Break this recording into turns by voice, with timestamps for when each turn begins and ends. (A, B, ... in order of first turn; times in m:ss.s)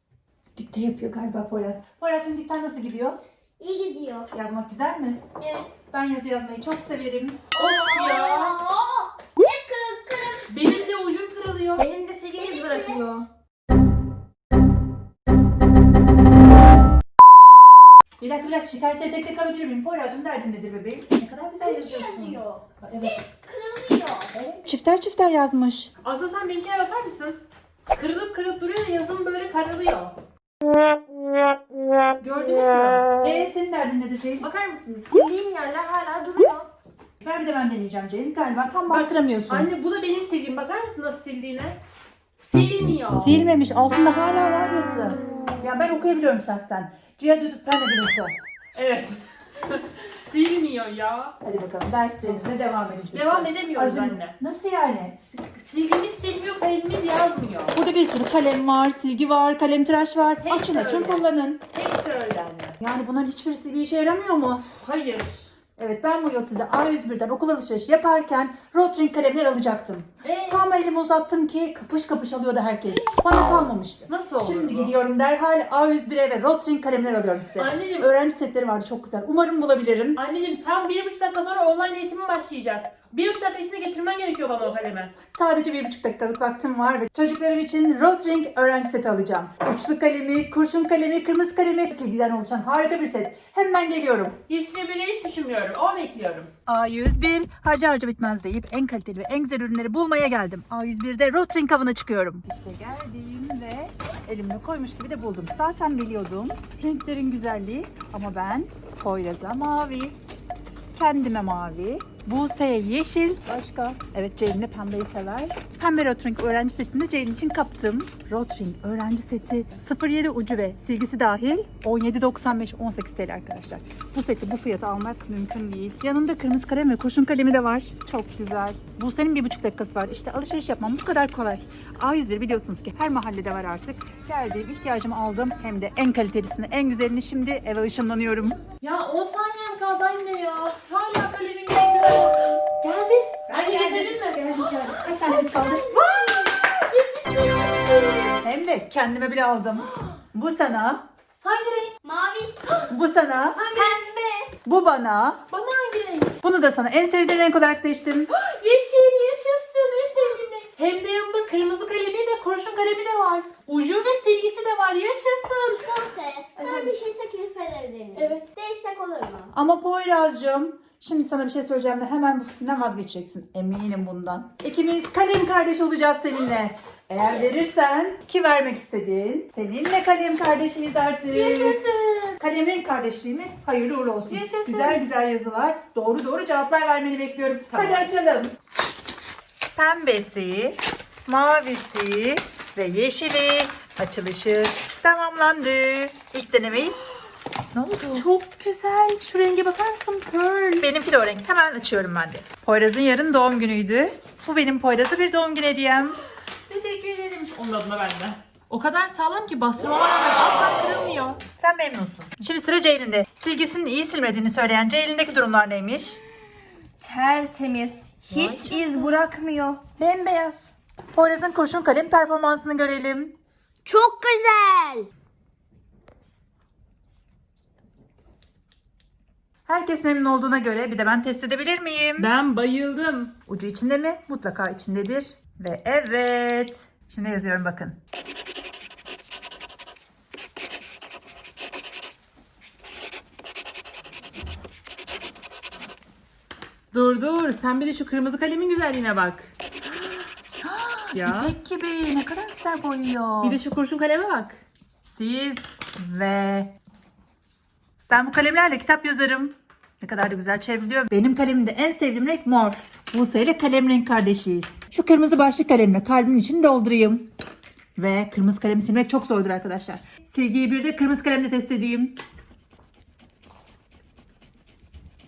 0:00.6-0:03.2 A
0:03.6-0:04.3 B
0:04.3-0:05.2 A
0:05.4-0:05.7 B
0:05.9-0:07.4 A
0:07.5-0:08.6 C
0:07.6-0:10.5 B
0:10.5-0:13.1 C
0:11.8-0:13.2 B
0:18.2-0:23.2 A
0:21.6-0:24.5 B
0:24.5-0:25.9 A
0:26.0-0:27.4 C
0:27.9-0:30.1 C
0:32.2-0:33.1 C
0:33.2-0:34.5 A
0:34.4-0:36.6 C
0:37.2-0:39.7 A
0:38.9-0:41.8 C
0:42.4-0:43.4 C
0:43.1-0:48.3 A
0:48.7-0:51.4 C
0:51.4-0:55.2 A
0:53.1-0:54.4 C
0:55.3-0:57.8 C
0:57.7-1:01.6 A
1:00.4-1:02.8 C
1:02.8-1:04.6 A
1:04.7-1:05.5 C
1:05.8-1:20.2 A
1:10.2-1:10.6 C
1:14.1-1:14.9 C
1:17.6-1:18.1 C
1:20.2-1:25.1 C
1:25.3-1:34.4 A
1:34.5-1:36.5 C
1:36.7-1:50.2 A
1:50.9-2:18.6 A
2:18.8-2:28.4 C
2:23.5-2:25.9 A
2:25.4-2:26.4 B
2:28.4-2:31.0 A
2:31.4-2:31.9 C
2:32.0-2:32.8 B
2:32.9-2:33.6 A
2:33.6-2:34.0 C
2:33.7-2:34.5 B
2:34.6-2:35.4 A
2:35.5-2:36.4 C
2:36.4-2:38.3 A
2:38.3-2:46.0 C
2:45.8-2:49.5 B
2:48.1-2:48.5 C
2:49.5-3:01.8 A
2:57.2-2:57.5 B
3:01.3-3:02.4 C
3:02.4-3:08.5 A
3:04.3-3:05.0 C
3:07.7-3:08.1 C
3:09.8-3:17.0 A
3:17.7-3:18.3 A
3:18.1-3:20.9 C
3:20.8-3:26.2 A
3:26.7-3:31.4 C
3:31.6-3:36.2 A
3:37.0-3:40.7 B
3:38.3-3:38.8 A
3:38.3-3:38.6 C
3:41.1-3:43.3 A
3:43.8-3:45.1 B
3:49.7-3:52.3 A
3:52.2-3:53.3 C
3:53.5-3:58.0 A
4:06.9-4:09.5 C
4:10.6-4:13.6 A
4:11.1-4:11.5 C
4:13.4-4:14.6 C
4:15.0-4:16.7 A
4:18.1-4:27.3 A
4:28.0-4:32.2 A